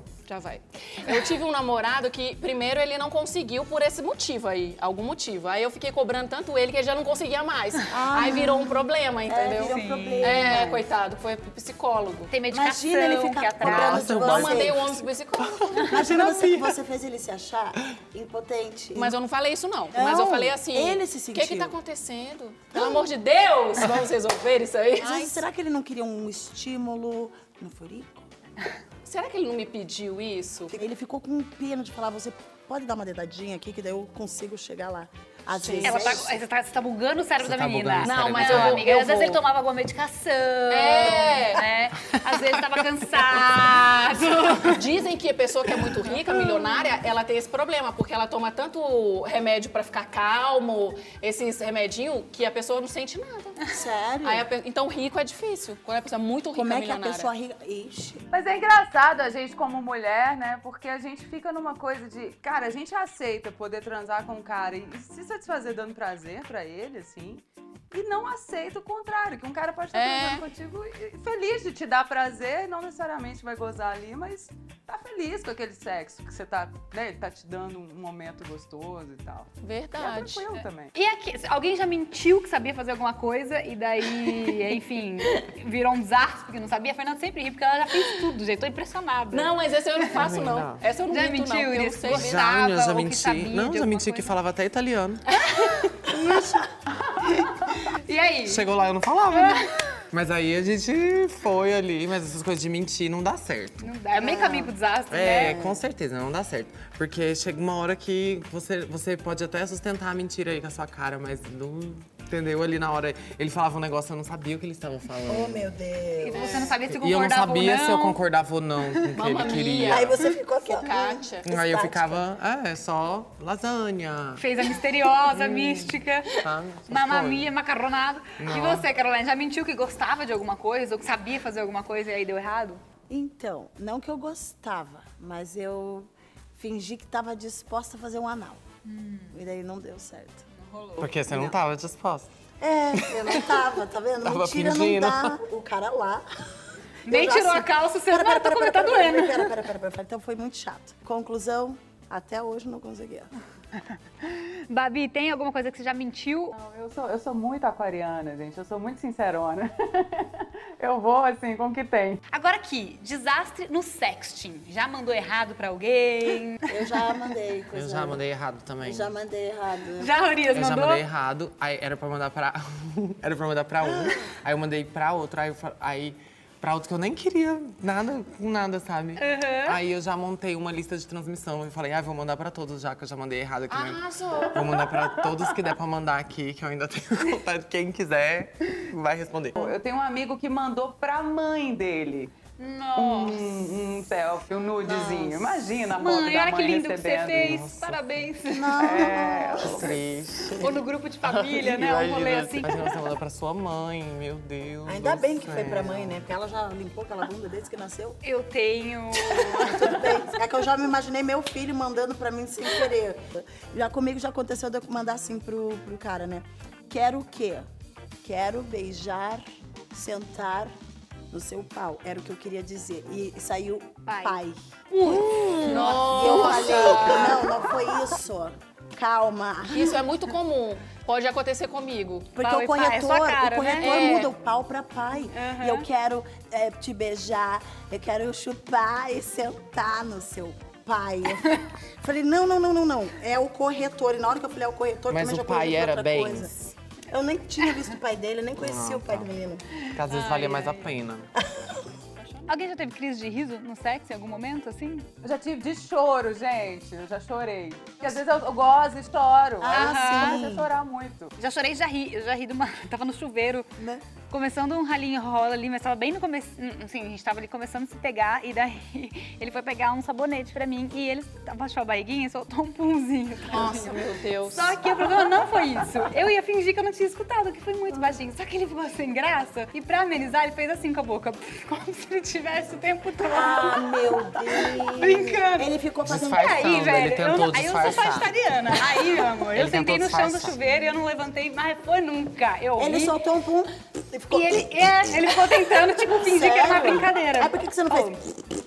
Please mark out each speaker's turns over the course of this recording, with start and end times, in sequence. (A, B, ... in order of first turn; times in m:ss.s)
0:00.3-0:12.3 A
0:07.9-0:10.6 B
0:09.6-0:10.8 C
0:12.3-0:14.2 C
0:12.5-0:15.0 B
0:13.6-0:16.8 D
0:14.0-0:16.0 A
0:15.8-0:19.2 B
0:18.9-0:25.4 A
0:19.9-0:21.7 B
0:22.7-0:23.1 B
0:25.0-0:28.3 B
0:29.0-0:30.8 A
0:30.7-0:36.4 B
0:35.5-0:36.3 A
0:35.8-0:44.8 C
0:37.4-0:38.9 D
0:38.0-0:39.4 A
0:40.7-0:41.6 A
0:42.0-0:44.1 D
0:44.5-0:53.7 A
0:53.7-0:54.5 B
0:54.2-0:57.3 A
0:56.5-0:58.2 B
0:58.3-1:20.9 E
1:09.9-1:10.4 A
1:19.6-1:20.4 A
1:20.9-1:30.2 C
1:29.3-1:32.4 A
1:30.1-1:30.8 D
1:31.1-1:34.3 C
1:32.1-1:35.2 D
1:35.4-1:35.9 A
1:36.0-1:36.7 B
1:37.2-1:38.6 C
1:38.5-1:43.9 D
1:39.3-1:39.7 C
1:43.8-1:45.6 C
1:44.2-1:44.7 B
1:45.1-1:55.7 D
1:45.3-1:45.8 B
1:55.2-1:56.7 B
1:56.2-1:58.2 C
1:56.3-1:56.7 A
1:56.8-2:00.2 D
1:59.1-2:01.5 A
1:59.8-2:02.3 B
2:01.4-2:04.4 D
2:04.4-2:06.3 C
2:05.2-2:07.5 D
2:06.9-2:12.8 C
2:08.4-2:08.9 D
2:13.1-2:18.6 B
2:18.8-2:19.3 C
2:19.3-2:20.4 B
2:20.6-2:21.1 C
2:21.0-2:22.3 D
2:21.3-2:21.5 B
2:22.6-2:26.2 B
2:23.0-2:23.6 D
2:24.2-2:25.4 D
2:27.1-2:29.5 C
2:27.1-2:33.3 B
2:34.2-2:36.5 C
2:36.5-2:42.2 E
2:42.3-2:46.6 C
2:46.7-2:48.2 B
2:47.7-2:49.1 D
2:48.8-2:50.1 B
2:50.0-2:51.0 C
2:50.5-3:09.8 D
2:53.8-2:54.1 B
2:59.2-2:59.8 C
3:03.7-3:04.7 A
3:04.6-3:05.4 E
3:09.5-3:12.3 E
3:12.6-3:13.4 C
3:13.0-3:17.6 E
3:14.8-3:15.7 B
3:16.0-3:19.4 C
3:17.4-3:18.0 D
3:18.5-3:19.9 B
3:18.8-3:19.9 E
3:19.6-3:26.2 D
3:20.6-3:22.7 C
3:24.8-3:28.2 B
3:28.2-3:29.9 C
3:29.5-3:37.7 B
3:38.2-3:40.7 B
3:41.3-3:50.0 B
3:44.1-3:47.4 C
3:45.6-3:47.5 A
3:49.7-3:52.3 A
3:52.3-4:06.5 B
3:52.4-3:53.9 C
3:53.8-3:54.3 A
3:55.3-3:55.8 C
4:05.1-4:06.5 D
4:07.1-4:09.6 B
4:08.6-4:09.3 D
4:09.8-4:10.9 C
4:09.9-4:11.3 D
4:11.4-4:11.8 B
4:12.2-4:12.4 A
4:12.5-4:15.1 C
4:15.2-4:21.3 E
4:19.6-4:20.7 B
4:19.7-4:20.4 C
4:21.4-4:23.7 C
4:24.3-4:34.0 C
4:33.5-4:34.8 A
4:34.5-4:45.7 C
4:43.2-4:46.8 B
4:46.0-4:48.3 D
4:46.3-4:53.2 C
4:49.2-4:50.6 D
4:52.8-4:58.3 B
4:54.3-4:58.2 C